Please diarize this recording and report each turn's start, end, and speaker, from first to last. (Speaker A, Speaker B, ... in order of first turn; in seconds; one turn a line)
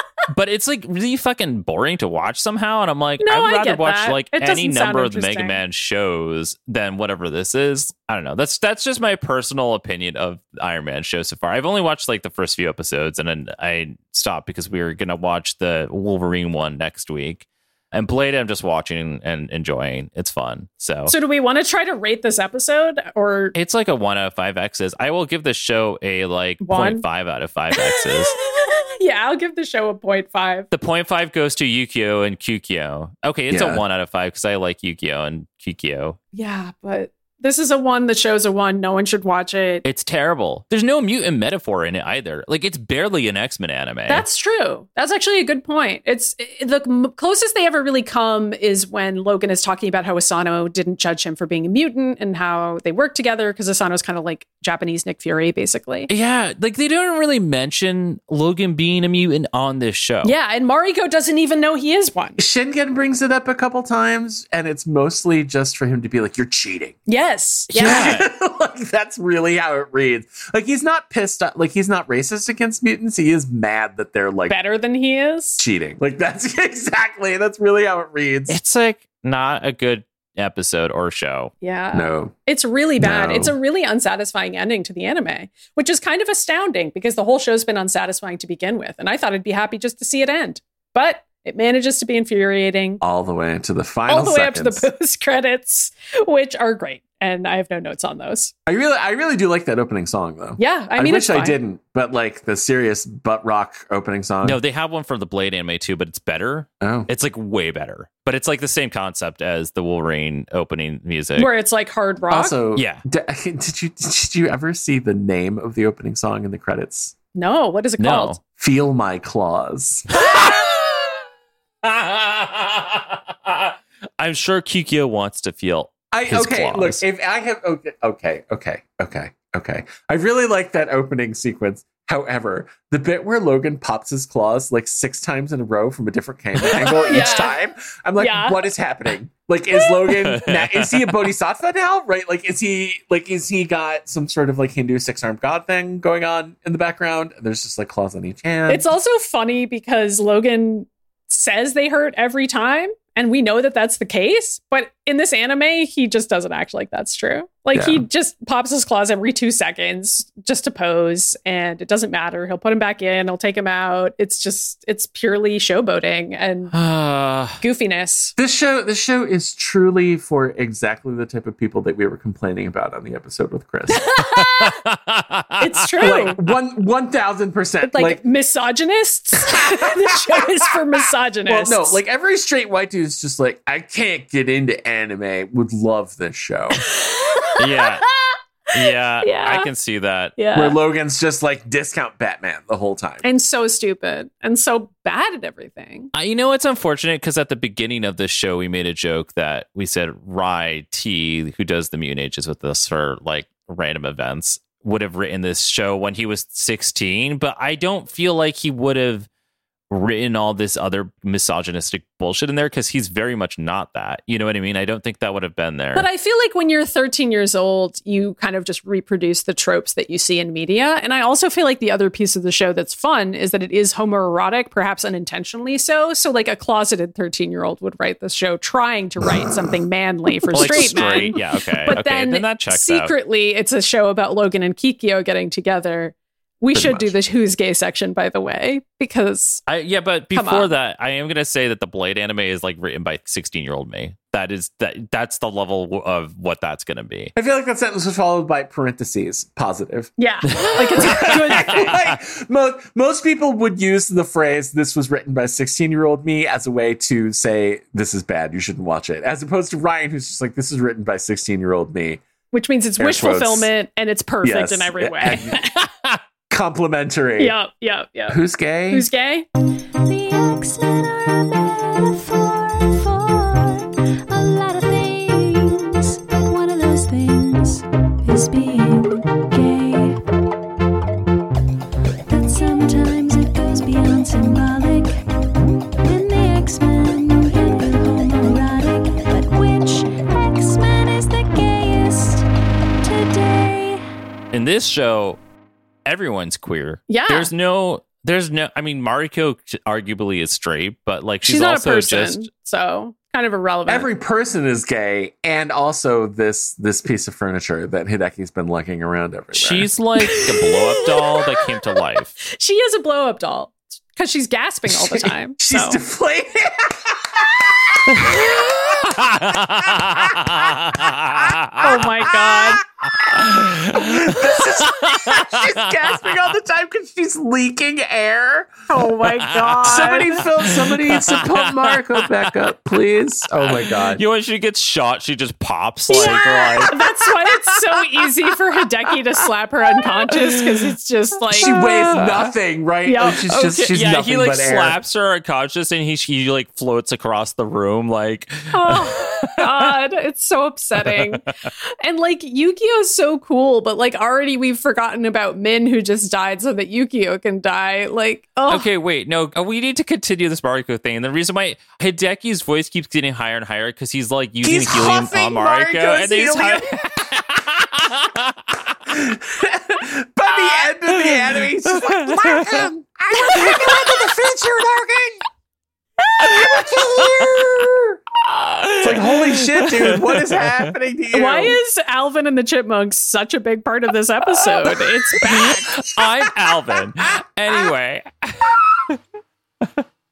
Speaker A: 0.3-21.1
Speaker B: 3.2-5.6
Speaker B: 21.1-23.6
Speaker A: 23.6-28.4
Speaker B: 26.6-27.0
Speaker B: 27.7-30.7
Speaker A: 30.7-36.2
Speaker C: 33.5-33.8
Speaker B: 36.3-39.9
Speaker A: 39.8-44.2
Speaker B: 44.1-56.1
Speaker A: 56.1-60.3
Speaker B: 60.2-62.4
Speaker C: 62.4-67.0
Speaker B: 67.1-68.2
Speaker A: 67.7-68.2
Speaker C: 67.8-74.5
Speaker B: 74.5-75.7
Speaker C: 75.6-78.6
Speaker A: 78.5-81.5
Speaker B: 81.6-93.0
Speaker C: 81.9-82.3
Speaker C: 83.0-83.5
Speaker C: 93.0-94.9
Speaker B: 94.1-98.5
Speaker C: 98.7-104.6
Speaker B: 100.6-101.6
Speaker A: 104.4-111.5
Speaker C: 106.8-107.1
Speaker B: 111.4-112.6
Speaker C: 112.3-117.2
Speaker A: 112.8-113.0
Speaker B: 117.3-118.4
Speaker A: 118.0-118.4
Speaker C: 118.6-120.1
Speaker A: 120.1-121.2
Speaker A: 121.8-127.0
Speaker C: 126.1-148.9
Speaker B: 136.7-137.6
Speaker B: 138.2-138.7
Speaker A: 140.1-141.1
Speaker B: 148.7-166.7
Speaker C: 157.7-158.1
Speaker A: 166.7-167.6
Speaker B: 167.6-168.3
Speaker C: 168.4-174.1
Speaker B: 173.9-174.8
Speaker A: 174.4-176.3
Speaker B: 175.6-176.4
Speaker C: 176.0-178.2
Speaker B: 177.8-182.0
Speaker C: 179.6-180.4
Speaker C: 181.5-186.8
Speaker B: 186.8-189.7
Speaker A: 187.6-188.1
Speaker A: 188.7-190.4
Speaker B: 190.4-190.8
Speaker C: 190.5-193.2
Speaker B: 193.2-196.1
Speaker A: 196.1-209.3
Speaker A: 209.9-216.1
Speaker B: 215.9-239.6
Speaker C: 230.5-231.3
Speaker A: 230.5-233.1
Speaker A: 236.8-237.1
Speaker A: 239.7-247.3
Speaker B: 240.3-240.7
Speaker C: 247.3-250.1
Speaker B: 250.2-251.9
Speaker A: 250.5-251.9
Speaker C: 251.0-262.2
Speaker B: 262.5-265.7
Speaker C: 263.0-263.7
Speaker C: 264.4-265.7
Speaker C: 266.5-267.6
Speaker B: 267.4-268.4
Speaker C: 268.3-269.1
Speaker B: 268.9-269.5
Speaker D: 270.0-280.2
Speaker D: 282.3-285.2
Speaker D: 286.0-292.5
Speaker D: 293.0-294.0
Speaker A: 294.5-295.4
Speaker A: 296.1-302.5
Speaker B: 297.1-297.5
Speaker B: 301.4-304.1
Speaker C: 303.9-309.9
Speaker A: 309.5-312.4
Speaker B: 310.3-311.4
Speaker B: 312.5-316.0
Speaker C: 315.1-320.7
Speaker A: 318.1-318.4
Speaker A: 319.1-322.1
Speaker B: 321.8-322.8
Speaker C: 322.4-328.7
Speaker A: 323.2-326.2
Speaker B: 328.9-330.4
Speaker A: 329.2-332.5
Speaker C: 329.8-334.2
Speaker A: 333.6-337.0
Speaker B: 336.1-342.2
Speaker C: 336.1-336.4
Speaker A: 341.6-342.5
Speaker C: 341.6-345.0
Speaker B: 343.1-343.4
Speaker A: 343.5-349.7
Speaker B: 348.7-351.4
Speaker A: 351.1-351.4
Speaker B: 352.0-358.9
Speaker A: 358.7-368.8
Speaker C: 364.6-367.2
Speaker C: 369.1-375.4
Speaker A: 371.1-372.9
Speaker B: 373.4-373.9
Speaker A: 373.6-374.0
Speaker C: 376.4-378.2
Speaker A: 377.2-377.5
Speaker A: 378.4-380.7
Speaker C: 379.0-381.8
Speaker B: 381.3-385.9
Speaker A: 385.4-389.2
Speaker C: 385.5-385.8